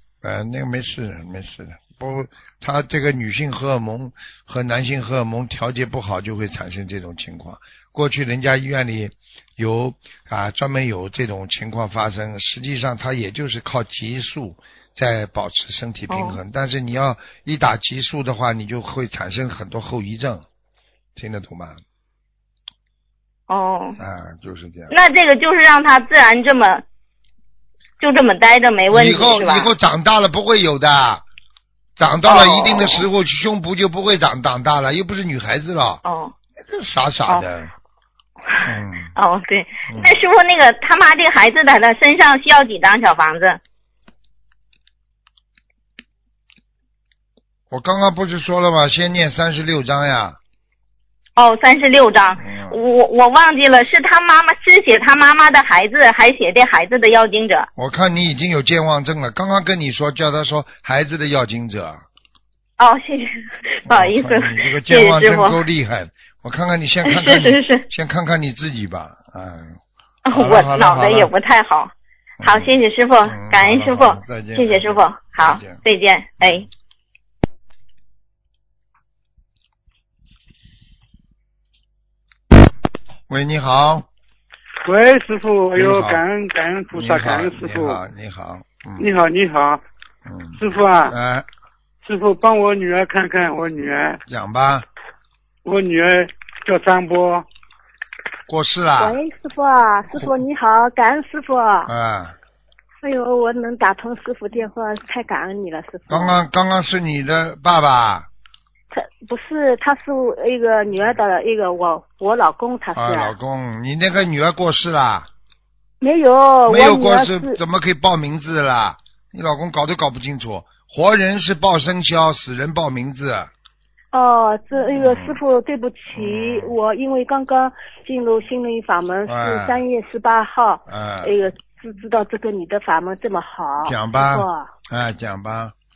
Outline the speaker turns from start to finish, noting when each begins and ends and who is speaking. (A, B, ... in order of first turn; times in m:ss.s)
0:00.2-0:20.4 A
0:16.1-0:16.4 B
0:21.2-0:21.8 A
0:23.5-0:24.0 B
0:24.0-0:24.9 A
0:24.9-0:26.8 B
0:28.0-0:29.7 B
0:28.9-0:31.2 A
0:32.0-0:36.0 A
0:32.2-0:33.1 B
0:36.0-0:36.3 B
0:36.6-0:37.7 A
0:38.5-0:43.6 B
0:38.6-0:39.1 A
0:39.9-0:40.2 A
0:47.7-0:50.4 A
0:51.4-0:57.7 B
0:52.4-0:52.8 A
0:57.8-1:02.0 A
1:02.8-1:05.6 B
1:03.9-1:11.3 A
1:07.0-1:07.8 B
1:10.2-1:16.7 B
1:12.4-1:15.8 A
1:16.4-1:16.7 A
1:23.3-1:24.1 A
1:24.8-1:28.0 C
1:25.7-1:26.2 A
1:26.9-1:29.2 A
1:29.0-1:29.8 C
1:30.2-1:31.5 A
1:30.6-1:31.1 C
1:32.0-1:34.2 C
1:34.3-1:34.8 A
1:35.6-1:37.4 C
1:38.5-1:39.2 A
1:39.0-1:41.9 D
1:41.8-1:42.4 A
1:43.0-1:46.4 D
1:46.1-1:48.3 A
1:48.9-1:53.3 D
1:52.9-1:55.3 A
1:56.0-1:57.6 D
1:56.7-2:03.5 A
2:04.1-2:14.7 D
2:04.9-2:05.4 A
2:06.1-2:06.8 A
2:09.2-2:09.8 A
2:10.9-2:11.3 A
2:13.8-2:15.7 A